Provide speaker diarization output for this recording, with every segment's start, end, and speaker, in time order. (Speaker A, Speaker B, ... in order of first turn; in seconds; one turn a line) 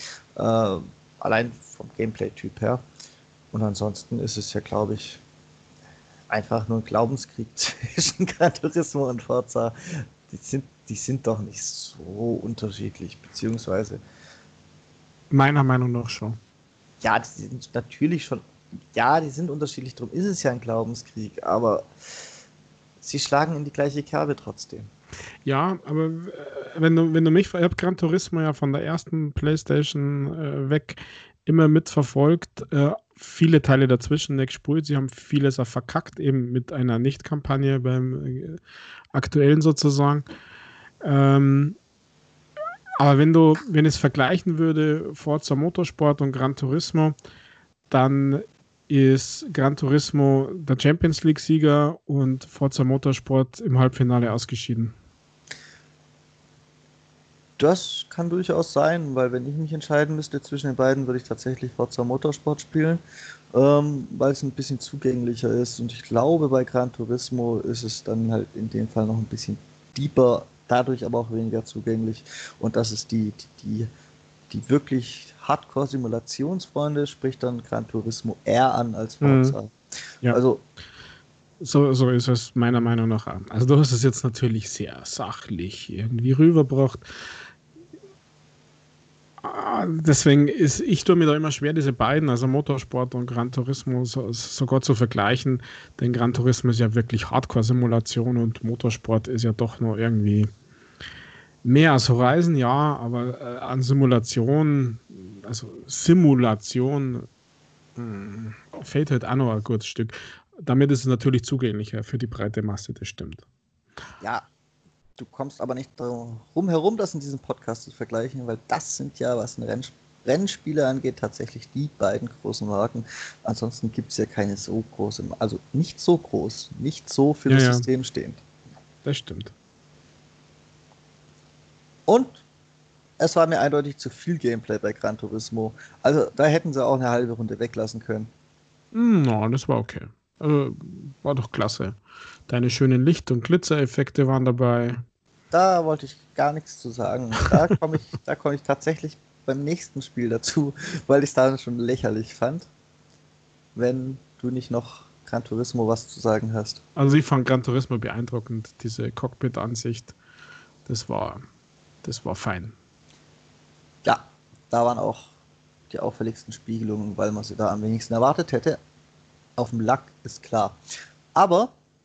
Speaker A: 0.3-2.8
Speaker A: 3.5-5.2
Speaker A: 6.3-14.0
Speaker B: 15.3-16.4
Speaker A: 17.0-21.9
Speaker A: 23.0-24.9
Speaker B: 25.4-38.6
Speaker B: 39.1-40.2
Speaker B: 41.0-41.8
Speaker B: 43.0-47.1
Speaker B: 47.9-54.9
Speaker A: 57.6-63.0
Speaker A: 63.5-73.9
Speaker A: 74.5-80.6
Speaker B: 79.2-79.6
Speaker B: 81.6-87.2
Speaker B: 89.4-100.5
Speaker B: 101.6-107.3
Speaker B: 108.0-113.4
Speaker A: 114.2-114.5
Speaker A: 115.2-128.4
Speaker B: 127.5-127.8
Speaker B: 129.0-129.5
Speaker A: 132.1-132.4
Speaker A: 133.2-138.3
Speaker B: 138.9-145.0
Speaker A: 145.5-152.7
Speaker A: 153.7-156.8
Speaker B: 156.9-160.1
Speaker B: 160.8-161.4
Speaker B: 162.0-162.7
Speaker A: 164.0-165.3
Speaker A: 165.9-168.8
Speaker A: 169.6-170.8
Speaker A: 171.3-171.7